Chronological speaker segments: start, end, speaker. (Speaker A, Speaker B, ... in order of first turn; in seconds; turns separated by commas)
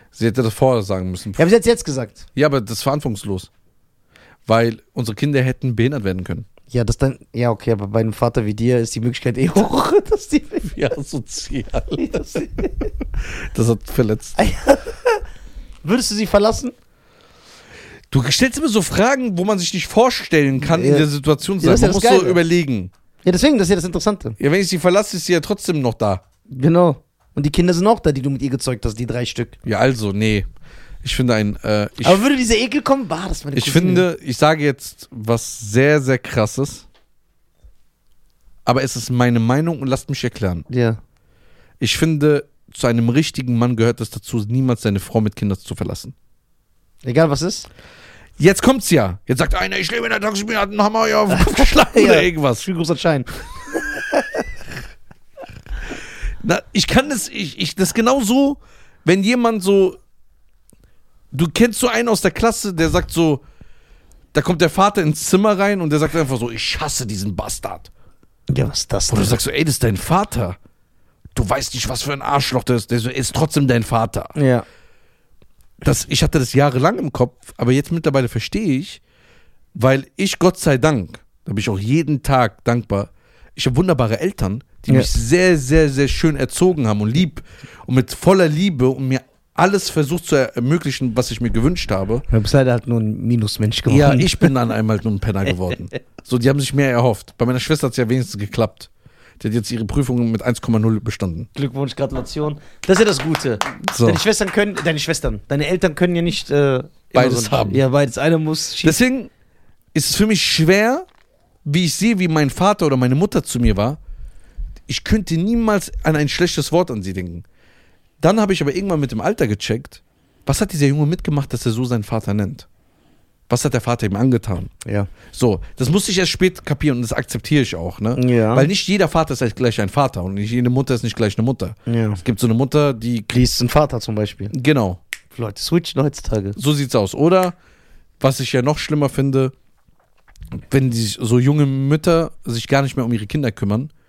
Speaker A: 0.1-1.5, Speaker B: 1.4-2.2, Speaker A: 2.4-3.5, Speaker A: 4.5-6.5, Speaker B: 6.7-10.8, Speaker A: 10.6-12.6, Speaker B: 12.0-12.9, Speaker A: 13.2-14.4, Speaker B: 14.4-15.2, Speaker B: 15.8-16.8, Speaker A: 18.1-22.9, Speaker B: 20.6-21.1, Speaker B: 21.6-22.4, Speaker B: 23.2-24.4, Speaker A: 24.4-26.2, Speaker B: 26.5-29.6, Speaker A: 29.6-30.5, Speaker A: 31.0-32.2, Speaker B: 32.0-34.1, Speaker A: 33.5-36.9, Speaker A: 38.6-40.6, Speaker B: 40.7-41.0, Speaker A: 41.8-46.1, Speaker B: 47.0-47.7, Speaker A: 48.4-52.6, Speaker B: 51.3-53.3, Speaker B: 54.0-54.2, Speaker A: 56.4-60.0, Speaker A: 61.3-63.4, Speaker A: 64.3-67.9, Speaker B: 68.5-69.4, Speaker A: 69.1-70.6, Speaker A: 71.3-74.3, Speaker B: 74.3-74.6, Speaker A: 75.8-79.0, Speaker A: 79.8-92.2, Speaker B: 92.3-94.5, Speaker A: 93.9-98.9, Speaker A: 99.4-101.5, Speaker B: 101.5-109.0, Speaker A: 103.8-104.2, Speaker A: 107.1-107.8, Speaker A: 108.8-109.3, Speaker A: 109.9-111.1, Speaker A: 111.6-114.0, Speaker A: 114.9-117.4, Speaker A: 118.2-122.7, Speaker A: 123.5-124.7, Speaker B: 124.8-125.1, Speaker A: 125.3-133.4, Speaker B: 128.2-128.7, Speaker B: 131.9-132.2, Speaker B: 133.3-134.5, Speaker A: 134.5-135.0, Speaker B: 135.3-136.6, Speaker A: 136.6-137.6, Speaker A: 138.2-139.5, Speaker A: 140.5-143.9